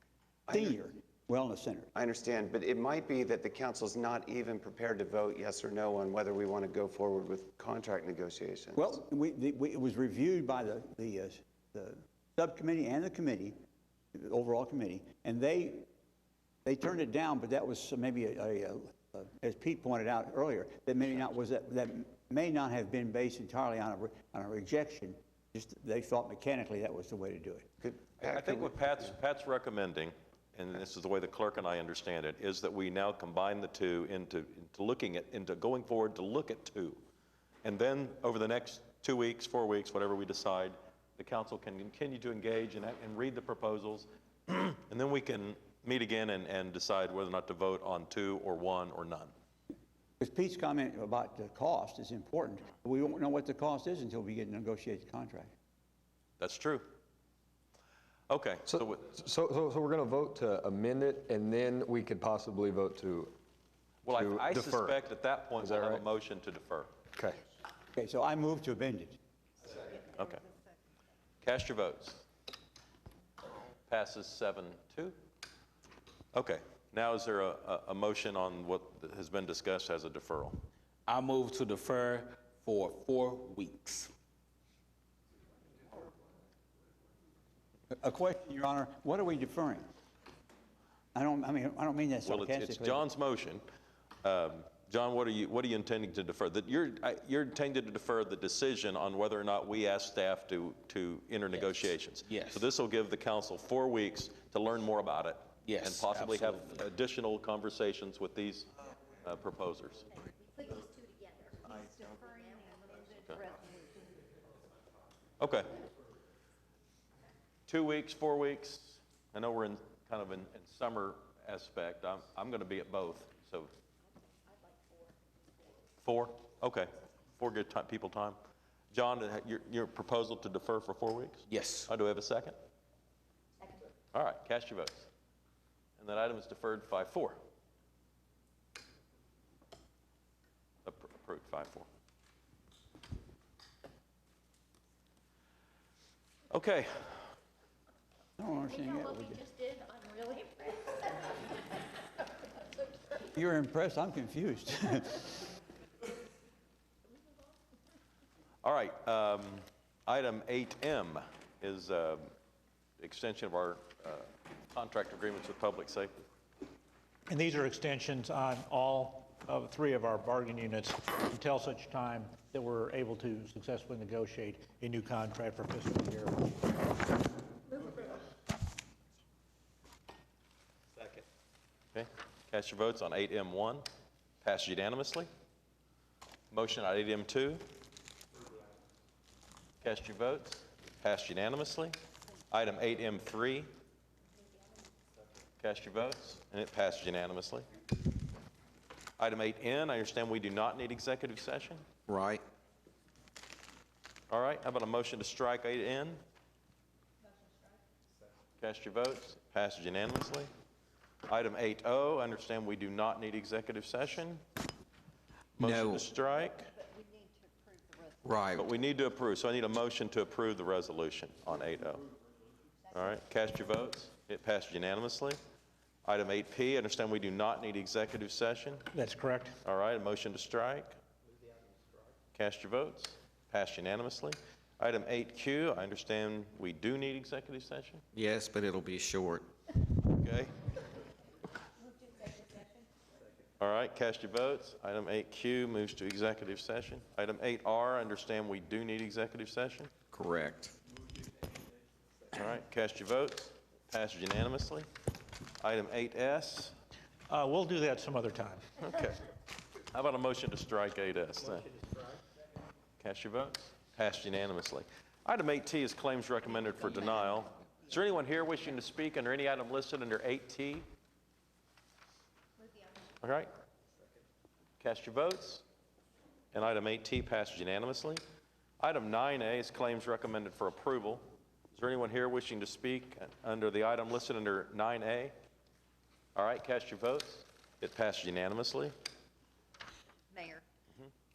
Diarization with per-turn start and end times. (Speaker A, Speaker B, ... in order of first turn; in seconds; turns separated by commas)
Speaker A: 0.5-0.7, Speaker B: 0.5-1.9, Speaker A: 1.9-8.9, Speaker B: 8.8-13.6, Speaker B: 14.1-15.9, Speaker B: 16.6-27.7, Speaker A: 27.8-28.8, Speaker C: 28.2-37.0, Speaker C: 37.6-49.3, Speaker B: 50.2-55.5, Speaker C: 56.4-56.9, Speaker C: 58.3-59.1, Speaker D: 58.7-63.4, Speaker C: 64.0-66.9, Speaker D: 64.1-65.0, Speaker D: 65.6-66.0, Speaker D: 67.2-67.4, Speaker B: 68.0-69.2, Speaker C: 70.2-70.4, Speaker E: 70.2-70.6, Speaker C: 71.4-72.3, Speaker C: 73.9-75.2, Speaker C: 76.3-80.6, Speaker F: 81.1-84.1, Speaker B: 87.9-89.9, Speaker B: 91.1-93.0, Speaker C: 92.2-93.7, Speaker C: 94.2-108.7, Speaker F: 101.5-102.7, Speaker F: 105.7-106.8, Speaker C: 109.2-110.1, Speaker E: 110.2-114.2, Speaker C: 115.4-115.9, Speaker C: 117.7-123.7, Speaker E: 124.5-125.2, Speaker C: 126.0-128.4, Speaker C: 128.9-132.6, Speaker F: 131.5-131.9, Speaker C: 134.1-135.1, Speaker C: 136.0-137.4, Speaker C: 140.8-141.9, Speaker C: 146.5-147.3, Speaker B: 148.4-149.4, Speaker E: 148.7-151.4, Speaker E: 152.6-153.3, Speaker B: 153.3-155.3, Speaker C: 158.6-162.3, Speaker C: 163.0-166.1, Speaker G: 167.3-176.6, Speaker C: 181.9-183.9, Speaker C: 184.4-185.3, Speaker C: 186.5-187.7, Speaker C: 189.8-191.9, Speaker C: 192.5-193.7, Speaker C: 195.6-197.7, Speaker C: 199.2-201.9, Speaker H: 202.1-202.4, Speaker C: 204.3-206.2, Speaker E: 207.3-207.7, Speaker C: 208.6-210.5, Speaker C: 211.3-214.4, Speaker C: 215.6-216.7, Speaker H: 215.6-216.1, Speaker E: 216.7-218.3, Speaker H: 218.2-218.7, Speaker C: 218.5-222.1, Speaker C: 222.9-225.4, Speaker C: 226.1-228.9, Speaker G: 228.9-229.6, Speaker C: 229.7-230.9, Speaker C: 232.3-238.0, Speaker H: 238.1-239.5, Speaker C: 240.2-240.6, Speaker E: 242.2-242.8, Speaker C: 243.6-249.9, Speaker H: 250.1-250.8, Speaker C: 252.3-254.9, Speaker C: 255.6-256.8, Speaker G: 257.3-258.7, Speaker C: 258.8-259.3, Speaker C: 259.9-261.7, Speaker C: 263.0-270.9, Speaker E: 272.6-273.1, Speaker C: 273.2-273.5, Speaker C: 274.8-275.6, Speaker C: 276.5-278.2, Speaker C: 278.8-285.3, Speaker C: 286.4-288.9, Speaker E: 290.3-290.6